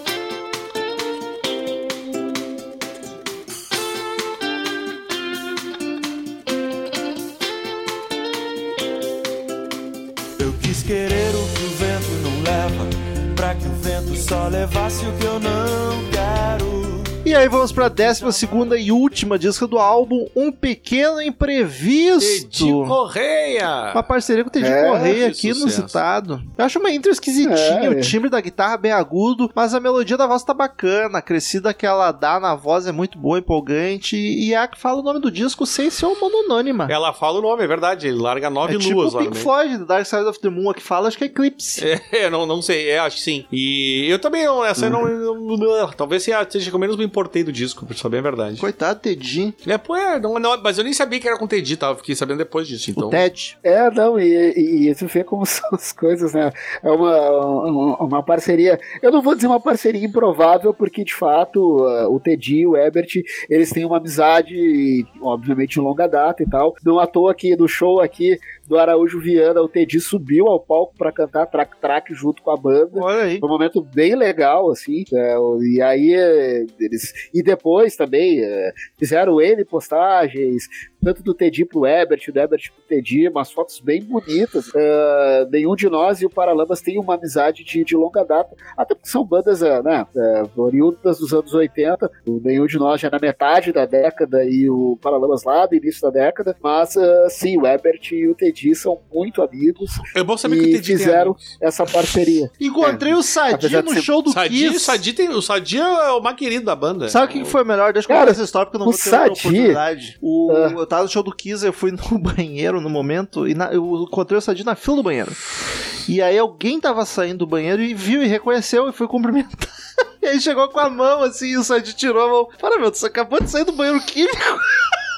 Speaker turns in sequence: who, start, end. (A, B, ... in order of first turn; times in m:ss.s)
0:10.4-0:17.2 A
0:17.2-0:23.0 B
0:22.2-0:24.0 C
0:23.9-0:36.9 B
0:24.6-0:25.2 D
0:25.1-0:26.0 C
0:27.4-0:28.1 D
0:36.9-0:39.5 C
0:38.6-0:41.8 B
0:41.8-0:48.6 C
0:48.6-0:49.6 B
0:49.6-0:53.2 C
0:53.0-0:53.6 B
0:53.6-1:44.1 D
1:12.9-1:13.4 B
1:40.1-1:41.6 C
1:42.6-1:45.0 B
1:44.3-1:47.5 C
1:47.1-1:55.4 B
1:48.1-1:49.8 D
1:50.5-1:50.8 D
1:56.0-2:05.0 B